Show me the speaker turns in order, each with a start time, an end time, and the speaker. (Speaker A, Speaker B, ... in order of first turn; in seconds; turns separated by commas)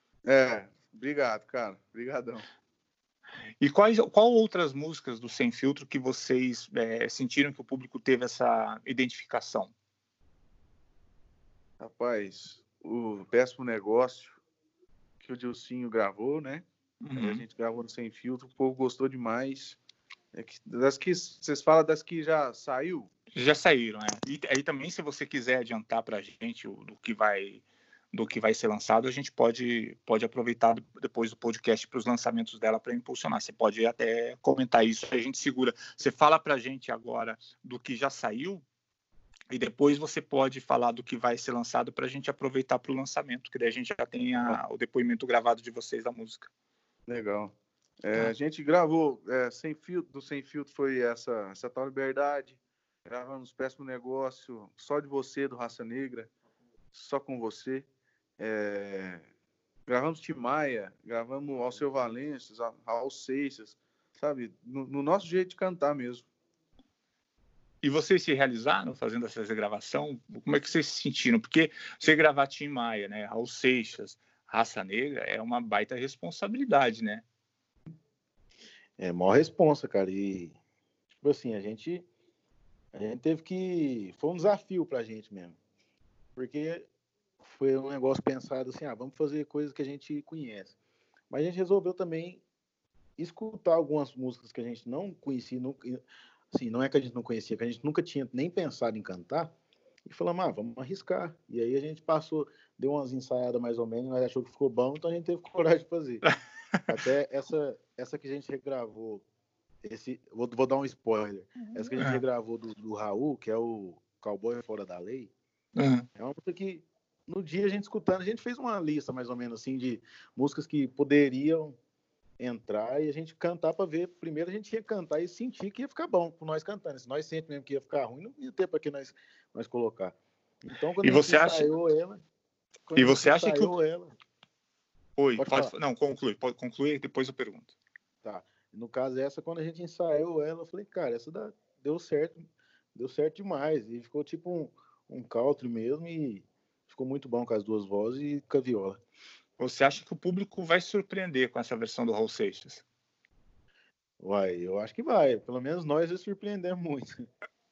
Speaker A: 0.3-2.5, Speaker B: 3.6-9.7, Speaker A: 11.8-14.4, Speaker A: 15.2-19.8, Speaker B: 17.0-17.4, Speaker A: 20.3-23.1, Speaker B: 23.3-38.6, Speaker B: 39.5-46.5, Speaker A: 47.1-56.3, Speaker A: 56.9-57.9, Speaker A: 58.4-59.2, Speaker A: 59.9-66.3, Speaker B: 67.8-77.2, Speaker C: 79.0-80.6, Speaker C: 81.2-82.0, Speaker C: 82.9-85.6, Speaker C: 86.4-86.9, Speaker C: 87.4-90.8, Speaker C: 91.3-92.4, Speaker C: 93.2-96.0, Speaker C: 96.5-99.5, Speaker C: 100.1-106.2, Speaker C: 106.9-109.2, Speaker C: 109.8-115.3, Speaker B: 112.0-112.2, Speaker B: 115.8-116.1, Speaker C: 116.2-121.8, Speaker C: 122.4-132.2, Speaker B: 131.0-131.7, Speaker C: 132.9-134.1, Speaker B: 133.0-133.7, Speaker B: 135.2-137.8, Speaker C: 135.4-135.7, Speaker C: 138.2-142.4, Speaker C: 142.9-149.0, Speaker B: 149.6-152.8, Speaker C: 154.2-157.1